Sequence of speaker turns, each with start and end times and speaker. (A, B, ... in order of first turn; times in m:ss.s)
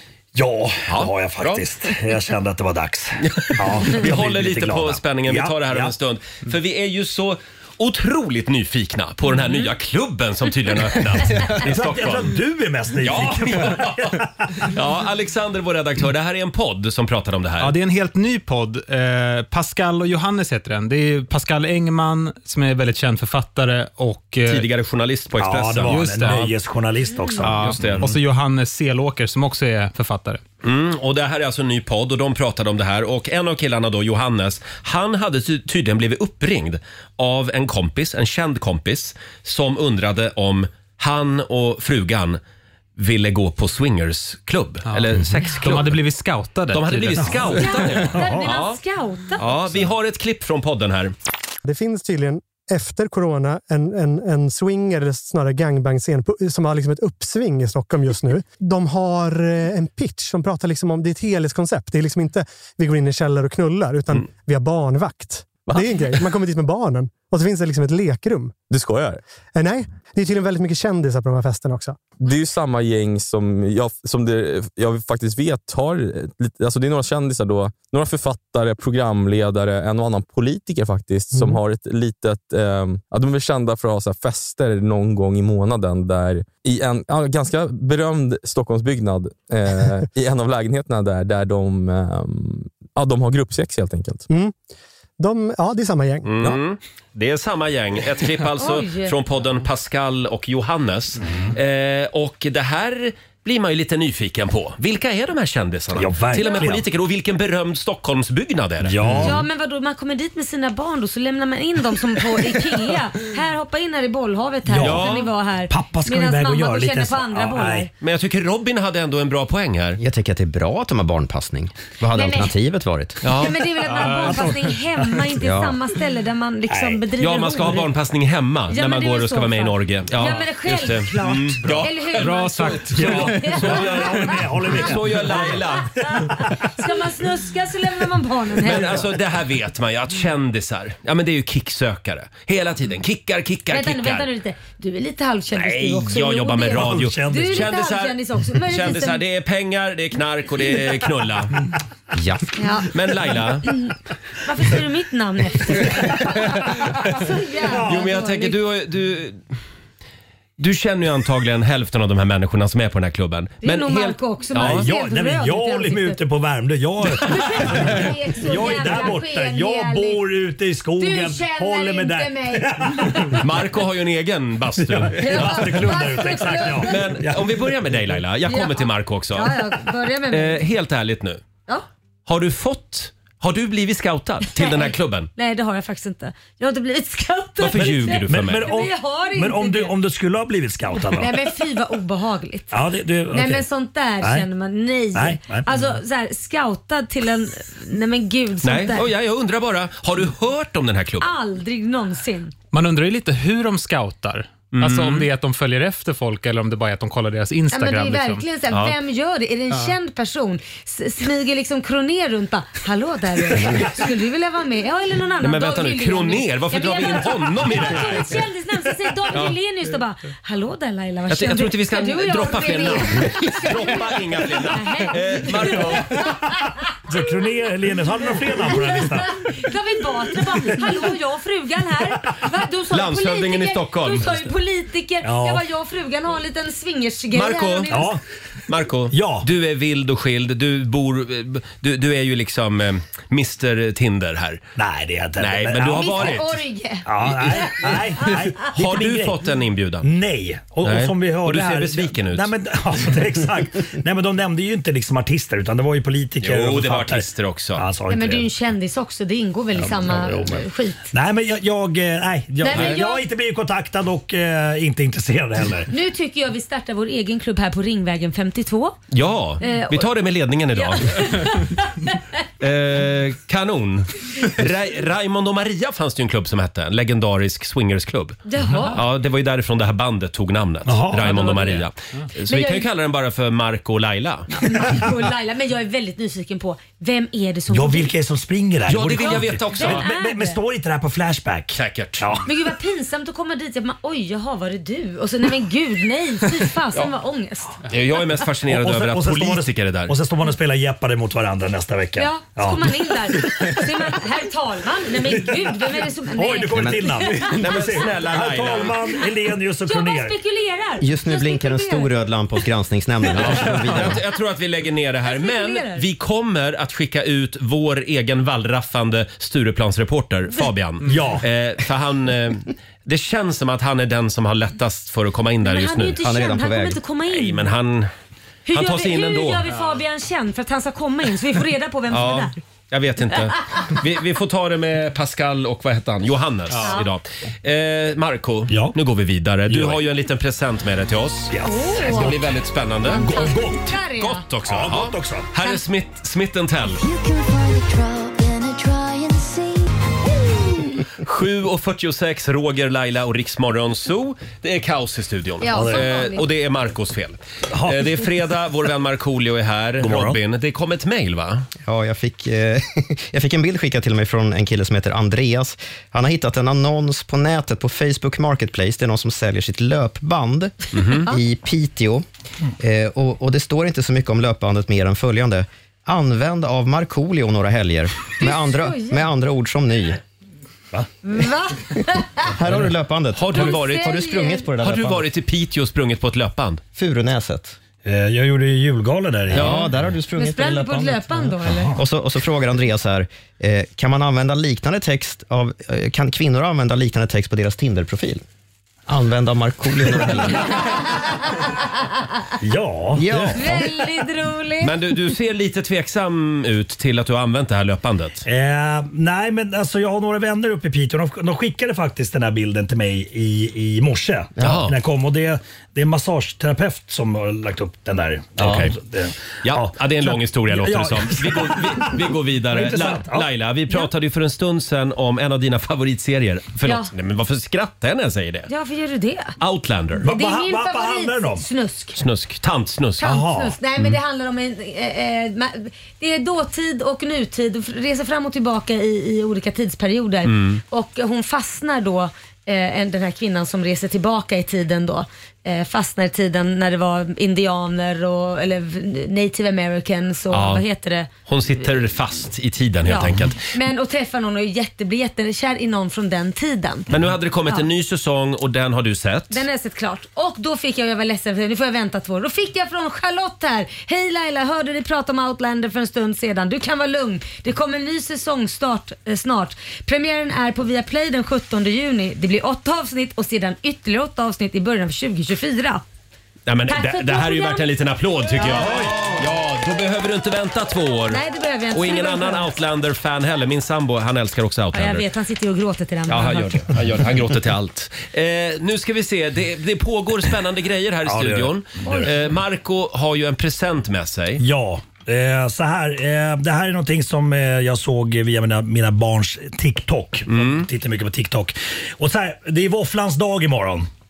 0:00.4-0:05.9 A
0:00.9-0:01.6 B
0:03.4-0:12.4 B
0:11.6-0:14.7 A
0:13.0-0:17.8 B
0:17.6-0:24.7 C
0:24.5-0:26.3 B
0:25.4-0:28.0 A
0:25.9-0:26.5 C
0:27.4-0:27.9 D
0:27.4-0:28.1 B
0:28.0-0:30.4 C
0:30.6-0:42.4 B
0:43.0-0:46.0 B
0:44.9-0:47.7 C
0:46.7-0:48.8 B
0:47.6-0:49.4 E
0:48.0-0:48.5 A
0:49.4-0:51.1 B
0:51.6-1:08.5 F
1:08.7-1:09.2 G
1:09.6-1:12.1 F
1:12.2-1:34.3 G
1:21.3-1:21.6 F
1:35.2-1:36.3 F
1:36.2-1:49.2 B
1:38.6-1:39.1 E
1:46.0-1:46.8 A
1:48.8-1:49.4 A
1:49.2-1:57.9 E
1:54.7-1:55.0 A
1:54.8-1:55.3 B
1:55.7-1:57.9 A
1:58.0-2:00.0 B
2:00.0-2:03.2 D
2:02.1-2:02.5 E
2:03.2-2:04.4 B
2:03.3-2:07.9 E
2:05.4-2:05.8 D
2:06.7-2:07.0 A
2:07.2-2:15.9 B
2:08.7-2:14.0 E
2:12.2-2:13.7 C
2:12.9-2:16.6 A
2:16.0-2:19.0 E
2:18.6-2:24.3 B
2:18.7-2:19.0 A
2:23.7-2:29.2 E
2:25.6-2:26.1 A
2:26.0-2:31.5 B
2:26.7-2:27.7 A
2:32.1-2:32.5 D
2:32.6-2:32.9 E
2:32.9-2:33.7 B
2:33.6-2:38.6 E
2:37.7-2:38.1 A
2:37.9-2:39.4 B
2:40.6-2:44.9 B
2:43.6-2:46.2 E
2:44.6-2:53.4 A
2:47.2-2:50.2 E
2:51.0-2:53.4 E
2:53.4-2:55.9 B
2:54.9-2:57.7 A
2:55.2-2:57.0 E
2:56.8-2:59.6 B
2:58.5-3:00.6 E
3:00.3-3:01.4 B
3:02.3-3:05.3 B
3:04.5-3:09.9 E
3:07.6-3:08.7 B
3:07.7-3:11.4 A
3:11.0-3:12.8 E
3:12.7-3:13.6 A
3:13.3-3:19.1 E
3:14.2-3:14.5 A
3:15.1-3:15.9 A
3:18.6-3:21.3 B
3:21.2-3:22.5 E
3:22.7-3:28.4 C
3:24.7-3:25.3 B
3:27.7-3:44.1 E
3:28.7-3:29.0 B
3:35.4-3:38.4 B
3:41.3-3:46.2 B
3:44.7-3:46.8 E
3:47.1-3:49.3 A
3:48.6-3:58.1 E
3:52.9-3:54.5 B
3:55.2-3:55.6 A
3:57.3-3:58.1 B
3:57.9-3:58.2 A
3:58.7-4:04.6 B
3:59.1-3:59.5 A
4:04.8-4:06.4 A
4:05.4-4:06.6 B
4:05.9-4:07.9 E
4:07.0-4:09.4 A
4:07.2-4:08.0 B
4:08.6-4:10.1 B
4:10.0-4:17.2 A
4:10.8-4:12.5 B
4:16.4-4:17.8 B
4:17.8-4:18.5 A
4:18.1-4:21.1 E
4:19.8-4:20.6 A
4:21.1-4:25.9 A
4:22.6-4:23.2 E
4:22.7-4:23.0 B
4:25.9-4:29.0 E
4:29.1-4:31.5 B
4:29.6-4:30.1 E
4:30.7-4:32.2 E
4:32.6-4:44.5 B
4:38.5-4:39.0 E
4:40.9-4:41.8 A
4:41.3-4:41.8 E
4:42.5-4:42.9 E
4:44.5-4:48.1 E
4:47.7-4:52.5 A
4:48.9-4:50.0 B
4:49.2-4:50.6 E
4:51.7-4:52.4 B
4:52.5-4:57.8 E
4:57.9-5:00.1 B
4:58.7-5:03.8 A
5:02.2-5:07.4 E
5:06.3-5:10.4 A
5:06.7-5:07.2 D
5:07.5-5:09.0 B
5:09.9-5:12.1 E
5:11.0-5:14.2 D
5:13.4-5:26.3 B
5:15.2-5:16.0 E
5:21.1-5:21.4 A
5:25.6-5:27.7 E
5:26.2-5:27.0 D
5:27.3-5:28.1 B
5:28.7-5:32.6 E
5:28.7-5:29.7 B
5:32.1-5:43.3 B
5:36.8-5:37.1 E
5:38.7-5:39.0 A
5:39.7-5:40.0 A
5:41.5-5:42.5 A
5:41.6-5:42.4 E
5:43.0-5:44.0 A
5:43.0-5:44.4 E
5:44.2-5:47.0 B
5:44.7-5:45.5 A
5:46.9-5:49.9 H
5:51.2-6:01.7 B
5:55.6-5:56.5 E
5:55.7-5:56.0 A
5:57.7-5:58.3 A
6:00.0-6:00.4 A
6:01.9-6:12.2 D
6:10.9-6:11.3 B
6:12.8-6:20.2 D
6:18.4-6:19.2 E
6:21.2-6:22.5 E
6:22.5-6:25.1 D
6:23.4-6:26.8 B
6:23.5-6:24.7 E
6:27.0-6:27.8 D
6:28.0-6:29.9 A
6:29.5-6:31.3 D
6:29.5-6:29.9 B
6:30.4-6:32.0 E
6:31.6-6:32.0 A
6:32.0-6:38.4 D
6:39.1-6:40.9 D
6:42.6-6:43.7 A
6:43.2-6:43.9 D
6:43.5-6:44.9 E
6:44.8-6:48.4 B
6:48.5-7:03.5 A
6:54.6-6:55.0 B
6:58.6-6:59.0 B
6:59.6-7:08.7 B
7:06.8-7:07.1 E
7:08.7-7:09.6 E
7:09.6-7:10.3 B
7:10.2-7:11.7 A
7:10.2-7:12.2 E
7:12.2-7:13.4 B
7:13.2-7:31.3 E
7:13.2-7:13.8 A
7:20.4-7:20.8 B
7:30.5-7:30.8 B
7:31.5-7:33.6 B
7:33.1-7:37.1 E
7:37.1-7:39.6 B
7:39.5-7:56.0 E
7:56.7-8:01.4 B
7:56.9-7:57.9 E
7:58.5-7:59.0 E
7:58.8-7:59.1 A
8:01.3-8:02.7 E
8:01.9-8:05.2 B
8:04.9-8:06.8 E
8:06.3-8:14.6 B
8:11.3-8:12.3 A
8:14.6-8:24.1 A
8:20.5-8:20.9 B